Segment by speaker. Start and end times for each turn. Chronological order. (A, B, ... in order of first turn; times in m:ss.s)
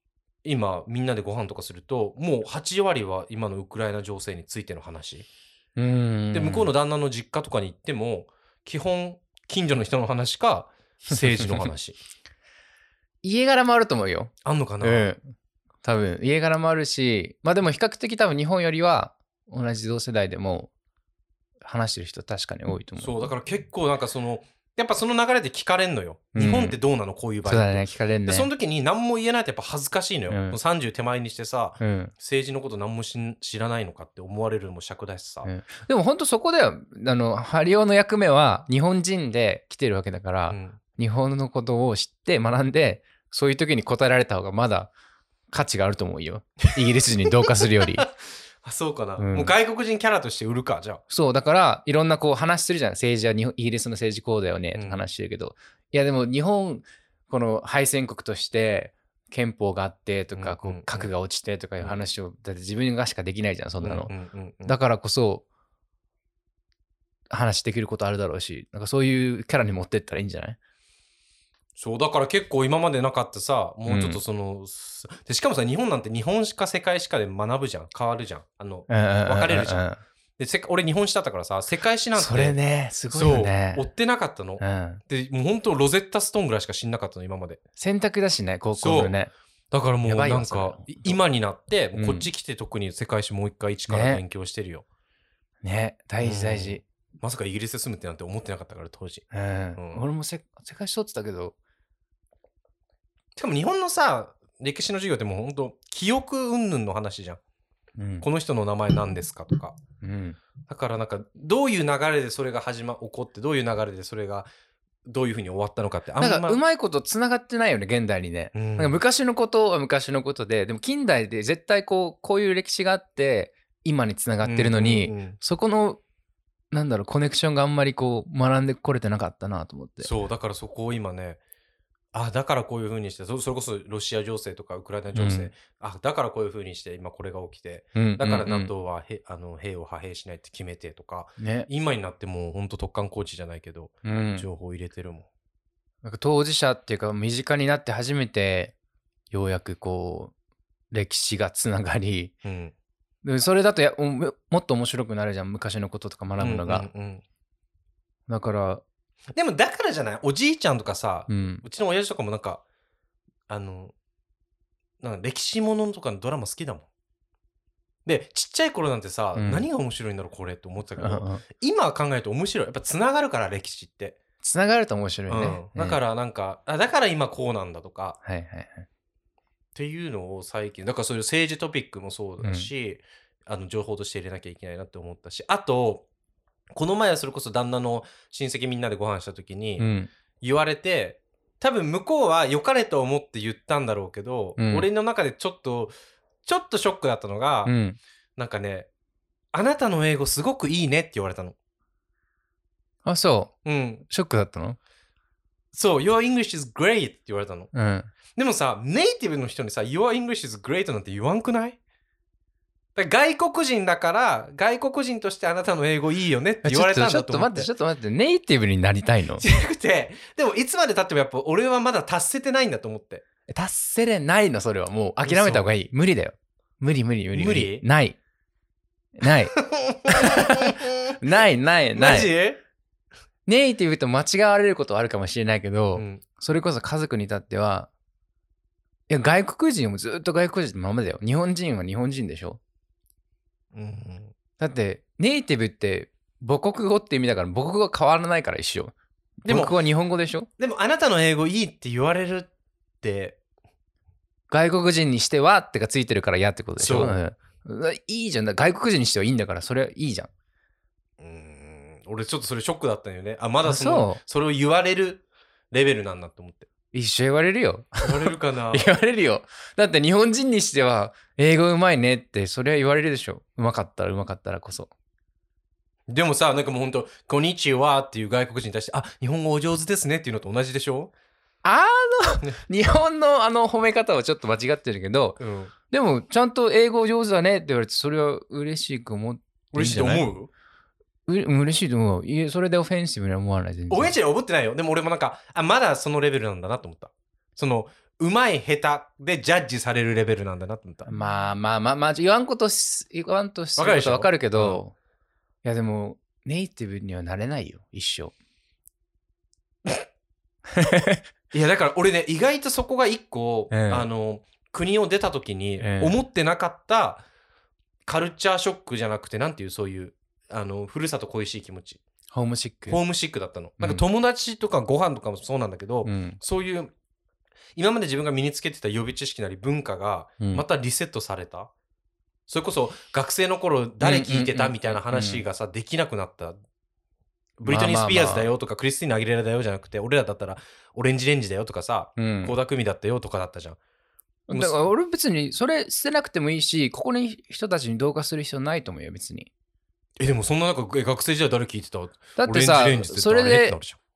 0:00.4-0:05.3 A
0:05.8-0:06.7 B
0:06.3-0:12.0 A
0:11.1-0:11.7 B
0:13.2-0:15.2 B
0:14.4-0:15.1 A
0:15.8-0:20.7 B
0:21.6-0:23.3 B
0:23.0-0:35.5 A
0:26.3-0:26.8 B
0:27.4-0:28.5 B
0:30.3-0:30.6 B
0:31.8-0:32.1 B
0:35.4-0:44.9 B
0:40.5-0:40.8 A
0:45.5-0:48.1 B
0:46.8-0:48.1 A
0:48.6-0:51.0 A
0:49.2-0:49.5 B
0:51.1-1:04.1 B
0:54.7-0:55.0 A
1:00.4-1:01.1 A
1:03.8-1:04.8 A
1:04.6-1:05.4 B
1:07.3-1:10.6 B
1:11.8-1:19.8 A
1:13.9-1:14.2 B
1:18.9-1:20.0 B
1:20.4-1:22.6 A
1:22.1-1:23.9 B
1:23.1-1:27.6 A
1:24.6-1:25.0 B
1:27.8-1:29.3 B
1:28.8-1:29.2 A
1:29.7-1:34.8 A
1:30.0-1:31.2 B
1:31.9-1:32.3 B
1:33.9-1:34.2 B
1:35.6-1:36.8 B
1:36.2-1:40.0 A
1:39.3-1:41.5 B
1:43.4-1:47.4 A
1:48.0-1:48.3 B
1:48.2-1:49.8 A
1:50.0-1:50.4 B
1:50.7-1:54.5 A
1:55.0-1:56.6 A
1:56.2-2:06.0 B
1:58.5-1:59.0 A
2:04.4-2:05.4 A
2:06.7-2:10.1 B
2:10.0-2:11.4 A
2:12.1-2:25.3 A
2:15.1-2:15.5 B
2:17.9-2:18.7 B
2:21.4-2:21.7 B
2:24.0-2:24.5 B
2:26.0-2:28.7 B
2:29.3-2:30.3 B
2:30.9-2:32.3 B
2:32.4-2:32.7 A
2:33.2-2:36.9 B
2:36.4-2:37.2 A
2:38.3-2:38.8 B
2:39.3-2:42.6 A
2:41.3-2:41.6 B
2:43.5-2:43.9 A
2:45.0-2:46.9 A
2:48.0-2:54.2 A
2:49.3-2:49.7 B
2:51.0-2:51.4 B
2:54.4-2:56.0 B
2:55.3-2:58.2 A
2:58.2-2:58.8 B
2:59.7-3:06.0 A
3:02.4-3:02.7 B
3:06.7-3:09.9 A
3:09.8-3:10.1 B
3:10.4-3:17.7 A
3:14.6-3:14.9 B
3:17.6-3:18.0 B
3:18.4-3:18.9 A
3:19.5-3:21.6 A
3:23.0-3:23.6 B
3:23.6-3:24.0 A
3:24.1-3:24.8 B
3:25.7-3:27.7 A
3:27.7-3:28.1 B
3:28.3-3:31.8 A
3:33.0-3:37.7 A
3:36.6-3:39.4 B
3:39.4-3:43.2 A
3:43.5-3:48.2 B
3:45.2-3:45.6 A
3:47.3-3:47.8 A
3:49.2-3:49.5 B
3:49.6-3:51.2 A
3:50.1-3:52.3 B
3:51.9-3:52.6 A
3:53.4-3:57.9 B
3:56.0-3:56.2 A
3:59.1-4:02.6 B
4:03.7-4:04.3 A
4:04.6-4:10.5 B
4:09.4-4:09.7 A
4:10.6-4:12.5 A
4:13.0-4:13.4 A
4:14.5-4:20.3 B
4:16.8-4:17.2 A
4:21.2-4:26.7 A
4:23.6-4:24.2 B
4:26.9-4:34.9 B
4:28.0-4:28.9 A
4:36.1-4:41.1 A
4:41.6-4:45.4 B
4:45.4-4:45.7 A
4:45.9-4:50.3 B
4:49.7-4:50.5 A
4:51.3-4:54.2 B
4:53.9-5:01.1 A
5:01.1-5:04.9 B
5:03.8-5:04.8 A
5:05.6-5:08.3 B
5:10.7-5:11.2 B
5:11.5-5:17.2 A
5:13.7-5:14.1 B
5:15.8-5:16.2 B
5:18.0-5:22.0 A
5:22.3-5:23.0 B
5:22.9-5:26.9 A
5:23.8-5:24.0 B
5:26.0-5:26.4 B
5:27.7-5:31.7 A
5:32.5-5:36.6 A
5:34.0-5:35.4 B
5:37.6-5:43.8 A
5:37.6-5:38.5 B
5:42.2-5:42.5 B
5:44.5-5:49.5 B
5:44.5-5:44.8 A
5:50.2-5:54.0 A
5:52.4-5:53.8 B